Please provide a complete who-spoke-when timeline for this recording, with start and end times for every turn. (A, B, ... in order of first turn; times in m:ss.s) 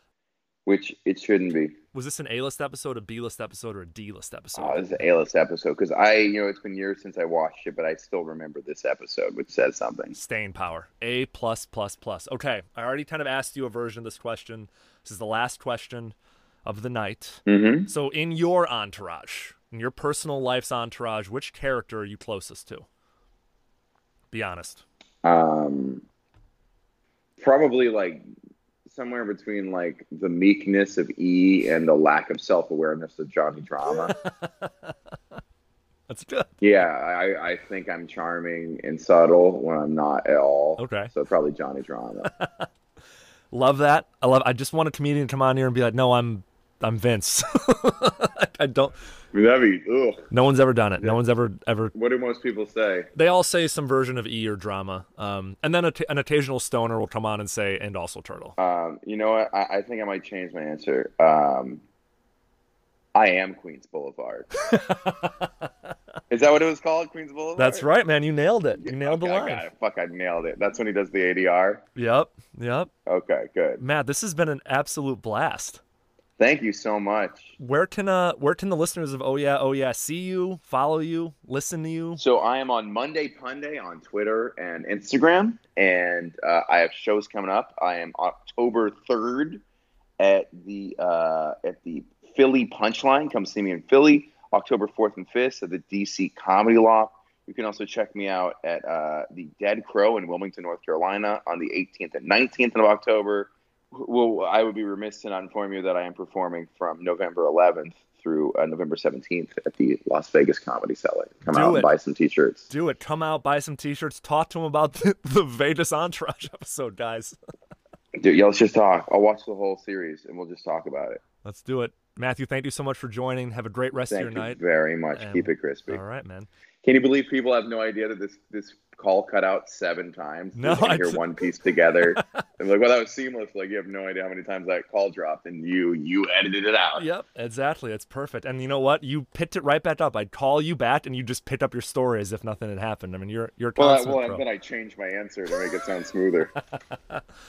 0:00.6-0:01.7 A
0:01.9-0:04.8 B
0:04.5-0:10.1 A
0:10.1-0:22.8 B
0:17.4-0:17.9 A
0:24.3-0:24.8 B
0:25.2-0:26.0 A
0:27.4-0:28.2 A
0:28.8-0:34.1 A
0:34.2-0:34.9 B
0:36.1-0:36.5 B
0:36.6-0:42.3 A
0:40.8-0:41.1 B
0:42.4-0:42.7 B
0:43.5-0:49.0 B
0:49.3-0:50.3 A
0:50.3-0:51.9 B
0:51.9-0:53.1 A
0:53.1-0:58.6 B
0:58.6-1:01.8 A
1:03.1-1:04.5 A
1:04.7-1:05.5 B
1:06.3-1:07.9 A
1:07.6-1:09.6 B
1:08.8-1:11.8 A
1:12.0-1:12.9 B
1:13.0-1:13.8 A
1:13.8-1:15.8 B
1:16.4-1:17.5 A
1:17.6-1:22.2 B
1:22.2-1:29.6 A
1:30.2-1:52.7 A
1:51.5-1:51.9 B
1:52.7-1:57.4 B
1:58.2-2:01.2 A
2:01.4-2:04.6 B
2:04.1-2:06.0 A
2:05.1-2:06.5 B
2:06.8-2:17.1 A
2:10.6-2:11.2 B
2:17.0-2:24.4 B
2:23.8-2:26.5 A